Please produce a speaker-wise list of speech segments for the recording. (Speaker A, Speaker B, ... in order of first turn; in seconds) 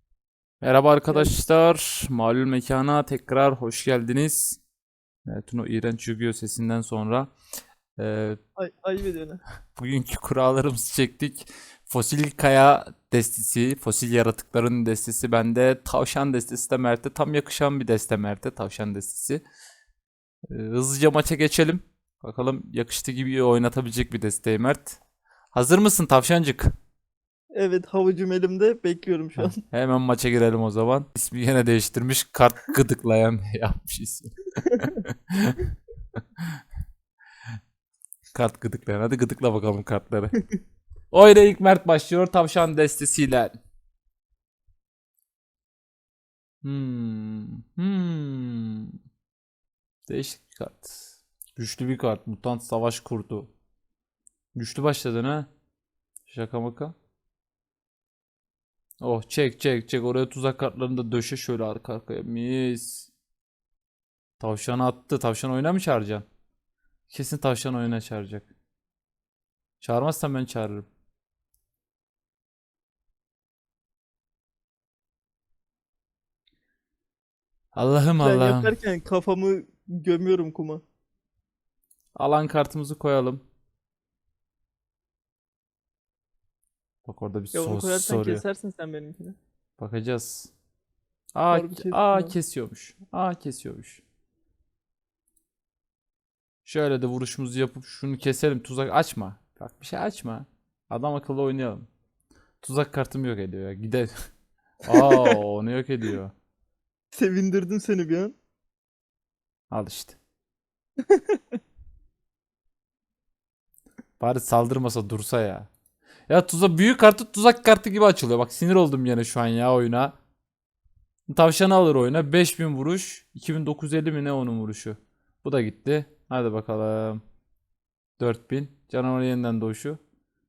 Speaker A: 0.6-4.6, 5.2-7.3, 8.0-8.4, 9.8-19.4, 20.5-25.0, 25.5-26.7, 29.4-35.6, 38.3-40.3, 41.1-43.5, 46.6-49.0, 50.1-53.5, 54.5-55.5, 56.2-56.9, 59.0-63.1, 64.4-66.2, 67.1-68.5, 69.8-70.9, 77.7-78.7, 82.2-83.4, 87.0-88.4, 89.8-90.5, 91.3-94.0, 96.6-101.9, 102.6-104.1, 104.8-106.3, 109.7-110.2, 114.2-115.7, 116.3-120.1, 121.3-127.2, 128.2-130.0
Speaker B: 8.6-9.4, 27.5-29.6, 78.2-80.8, 87.5-89.4, 91.5-92.3, 104.9-105.4, 107.1-108.3, 111.1-111.4